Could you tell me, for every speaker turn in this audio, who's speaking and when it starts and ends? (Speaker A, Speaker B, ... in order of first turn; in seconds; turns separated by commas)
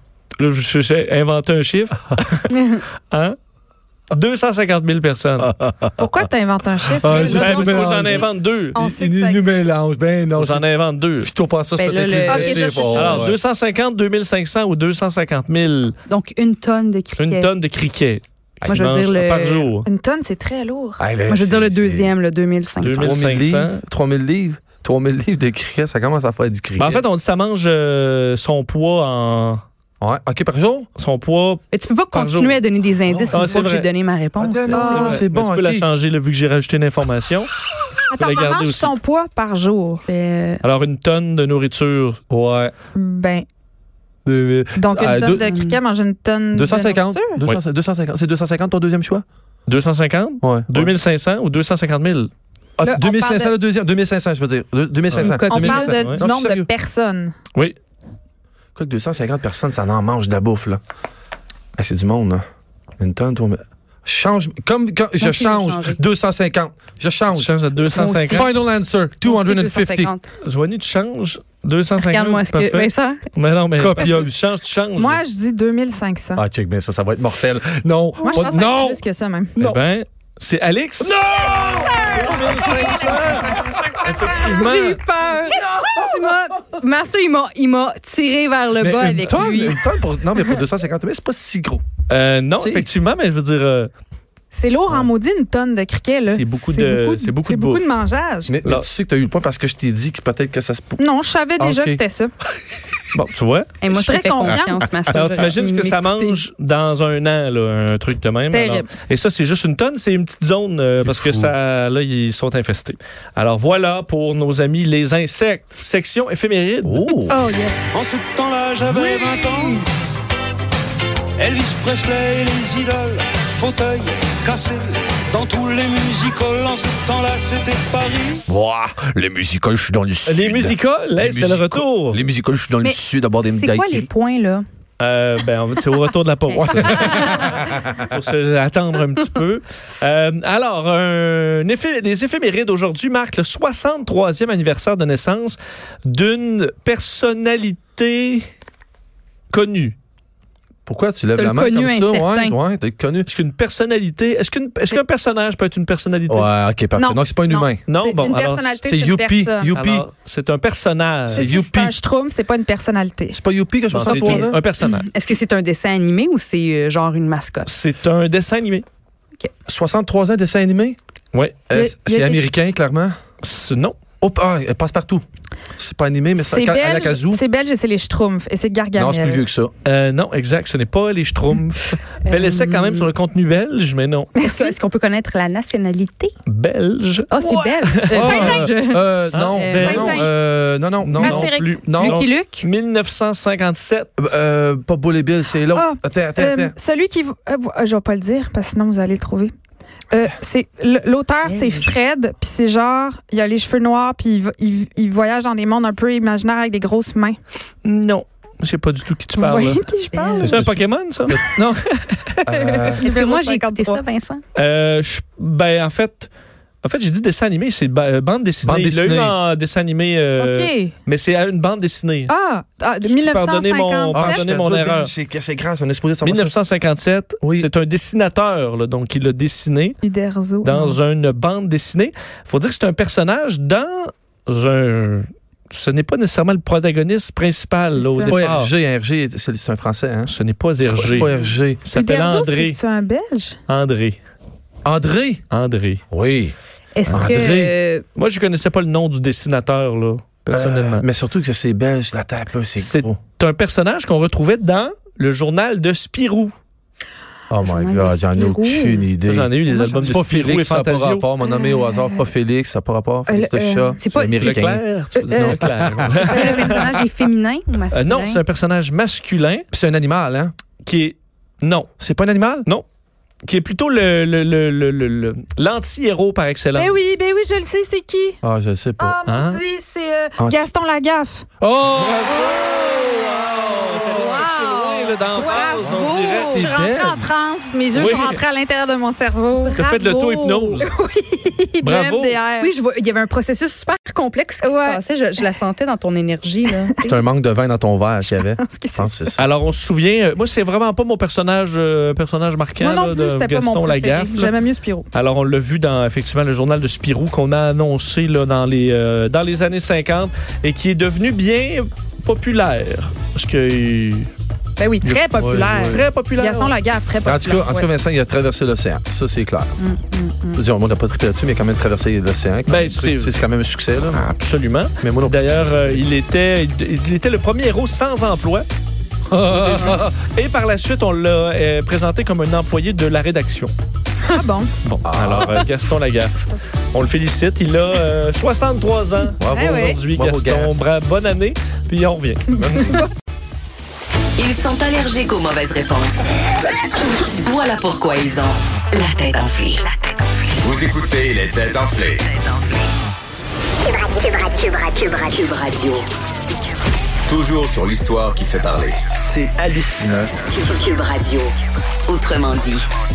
Speaker A: 0.4-3.4, Speaker B: 2.5-2.8, Speaker A: 4.1-5.5, Speaker C: 5.4-6.0, Speaker D: 6.0-9.5, Speaker C: 6.9-10.7, Speaker A: 7.1-8.8, Speaker A: 10.3-11.3, Speaker C: 11.2-13.4, Speaker B: 11.8-13.2, Speaker D: 12.3-13.2, Speaker A: 12.9-15.9, Speaker B: 16.1-17.5, Speaker A: 17.2-19.9, Speaker B: 18.7-19.7, Speaker D: 19.8-21.0, Speaker C: 21.0-22.1, Speaker B: 21.3-23.0, Speaker A: 22.8-23.8, Speaker C: 22.8-27.0, Speaker A: 26.8-29.6, Speaker C: 30.0-30.9, Speaker A: 31.0-32.6, Speaker B: 31.7-35.0, Speaker C: 33.1-33.6, Speaker A: 33.3-33.9, Speaker C: 34.4-35.9, Speaker D: 34.7-35.2, Speaker A: 34.7-37.5, Speaker D: 38.1-40.0, Speaker A: 38.2-38.9, Speaker B: 40.0-40.6, Speaker A: 40.6-42.2, Speaker C: 42.3-42.7, Speaker D: 42.9-43.5, Speaker C: 44.2-45.5, Speaker D: 44.8-47.4, Speaker B: 45.4-45.8, Speaker C: 46.5-49.2, Speaker A: 49.7-52.3, Speaker C: 50.4-50.9, Speaker C: 52.8-56.7, Speaker D: 52.8-53.5, Speaker B: 55.2-56.0, Speaker D: 55.5-57.4, Speaker A: 55.9-56.2, Speaker C: 58.8-60.8, Speaker C: 61.8-62.4, Speaker C: 63.0-70.1, Speaker B: 65.2-66.0, Speaker A: 67.3-68.5, Speaker B: 67.8-68.5, Speaker B: 69.2-70.2, Speaker A: 70.4-75.2, Speaker B: 72.0-73.2, Speaker C: 73.8-74.3, Speaker D: 75.0-76.4, Speaker C: 76.3-79.0, Speaker D: 78.2-79.5, Speaker A: 79.6-81.2, Speaker C: 81.0-84.1, Speaker A: 82.1-85.0, Speaker B: 84.4-89.9, Speaker C: 85.7-86.1, Speaker C: 88.8-91.8, Speaker A: 92.1-93.9, Speaker C: 92.6-92.9, Speaker D: 94.5-98.5, Speaker A: 96.3-97.9, Speaker C: 98.5-101.0, Speaker D: 101.0-102.3, Speaker C: 101.6-102.0, Speaker A: 103.1-103.7, Speaker B: 103.8-106.4, Speaker D: 103.9-104.9, Speaker A: 105.1-117.1, Speaker D: 108.5-108.9, Speaker C: 111.0-111.5, Speaker C: 116.8-117.4, Speaker D: 117.3-117.9, Speaker E: 117.9-119.8, Speaker D: 119.0-119.7, Speaker E: 121.4-128.4, Speaker C: 128.5-134.1, Speaker A: 130.2-132.2, Speaker B: 132.8-134.7, Speaker A: 135.0-148.4, Speaker B: 136.5-137.4, Speaker C: 136.8-138.1, Speaker A: 149.5-149.9, Speaker C: 150.8-153.3, Speaker B: 151.3-152.6, Speaker A: 153.3-156.5, Speaker C: 156.3-157.8, Speaker D: 157.0-159.7, Speaker A: 157.9-158.8, Speaker C: 158.8-160.0, Speaker A: 159.7-161.6, Speaker C: 161.3-161.9, Speaker D: 161.3-163.4, Speaker C: 163.3-164.6, Speaker A: 163.9-165.1, Speaker B: 164.0-167.7, Speaker A: 167.7-168.8, Speaker C: 169.7-171.0, Speaker A: 171.3-171.6, Speaker C: 171.7-173.2, Speaker D: 171.7-172.4, Speaker A: 173.4-174.0, Speaker C: 174.2-175.2, Speaker C: 175.8-177.4, Speaker D: 176.4-179.4, Speaker C: 179.0-179.7, Speaker A: 179.8-184.3, Speaker B: 182.2-183.1, Speaker B: 184.4-186.3, Speaker D: 184.4-184.7, Speaker A: 186.4-187.3, Speaker B: 187.3-190.0, Speaker D: 187.4-188.7, Speaker A: 188.0-188.4, Speaker C: 188.1-192.2, Speaker A: 189.3-190.3, Speaker D: 189.8-190.3, Speaker A: 191.0-194.1, Speaker D: 191.2-191.9, Speaker B: 192.0-192.7, Speaker C: 194.2-196.7, Speaker D: 195.7-199.5, Speaker D: 200.1-207.4, Speaker B: 201.4-201.9, Speaker A: 207.8-209.8, Speaker D: 209.4-210.6, Speaker B: 210.1-210.6, Speaker A: 210.4-212.3, Speaker C: 210.4-210.8, Speaker C: 212.4-213.0, Speaker B: 212.6-214.4, Speaker D: 213.0-214.0, Speaker A: 214.5-216.3, Speaker A: 216.8-222.3, Speaker C: 218.6-219.3, Speaker D: 220.4-220.9, Speaker D: 222.3-224.4, Speaker A: 223.0-225.1, Speaker C: 224.1-226.5, Speaker A: 226.2-230.0, Speaker C: 227.4-227.7, Speaker D: 230.0-231.0, Speaker A: 230.6-238.7, Speaker D: 238.1-238.3, Speaker C: 238.2-241.8, Speaker A: 240.3-242.8, Speaker D: 241.9-243.6, Speaker A: 243.7-244.2, Speaker C: 244.8-245.4, Speaker A: 245.5-246.0, Speaker C: 246.1-246.5, Speaker B: 246.9-248.0, Speaker A: 247.1-247.4, Speaker C: 247.1-247.7, Speaker A: 248.2-251.1, Speaker C: 250.5-253.2, Speaker A: 252.8-256.5, Speaker C: 257.5-266.5, Speaker B: 257.6-259.1, Speaker A: 259.2-261.2, Speaker B: 259.7-260.0, Speaker D: 261.5-261.8, Speaker D: 263.3-264.0, Speaker B: 264.0-264.7, Speaker A: 264.4-266.9, Speaker D: 265.1-265.6, Speaker B: 266.1-268.4, Speaker D: 266.2-266.9, Speaker A: 267.9-269.6, Speaker C: 269.7-270.5, Speaker A: 270.8-271.9, Speaker C: 272.0-272.7, Speaker A: 273.4-277.0, Speaker D: 276.8-278.4, Speaker C: 278.4-279.2, Speaker D: 279.0-281.4, Speaker A: 279.3-279.6, Speaker C: 280.4-280.7, Speaker C: 281.6-282.4, Speaker A: 281.9-286.7, Speaker D: 284.2-284.7, Speaker B: 284.2-286.6, Speaker D: 285.3-289.8, Speaker C: 285.8-287.2, Speaker A: 287.9-288.4, Speaker B: 289.6-290.9, Speaker A: 289.7-290.9, Speaker D: 290.8-292.7, Speaker A: 291.8-292.4, Speaker B: 292.6-296.9, Speaker D: 294.6-295.0, Speaker C: 297.0-299.4, Speaker D: 298.3-299.3, Speaker A: 299.4-304.5, Speaker D: 302.8-305.1, Speaker A: 305.1-314.3, Speaker D: 314.8-317.9, Speaker A: 315.0-316.7, Speaker C: 315.4-316.0, Speaker C: 317.2-319.7, Speaker B: 319.8-320.6, Speaker C: 320.5-324.3, Speaker A: 322.7-323.4, Speaker A: 324.1-328.7, Speaker C: 325.0-326.0, Speaker C: 329.3-330.1, Speaker A: 329.4-333.7, Speaker D: 334.3-334.7, Speaker A: 334.8-342.5, Speaker C: 335.0-335.6, Speaker C: 339.4-340.8, Speaker D: 339.5-340.0, Speaker C: 342.6-343.1, Speaker D: 342.6-343.1, Speaker F: 344.4-346.3, Speaker F: 347.4-349.9, Speaker G: 350.6-352.2, Speaker F: 353.9-356.1, Speaker G: 357.3-359.4, Speaker G: 360.0-360.3, Speaker F: 360.5-361.5, Speaker F: 362.1-362.9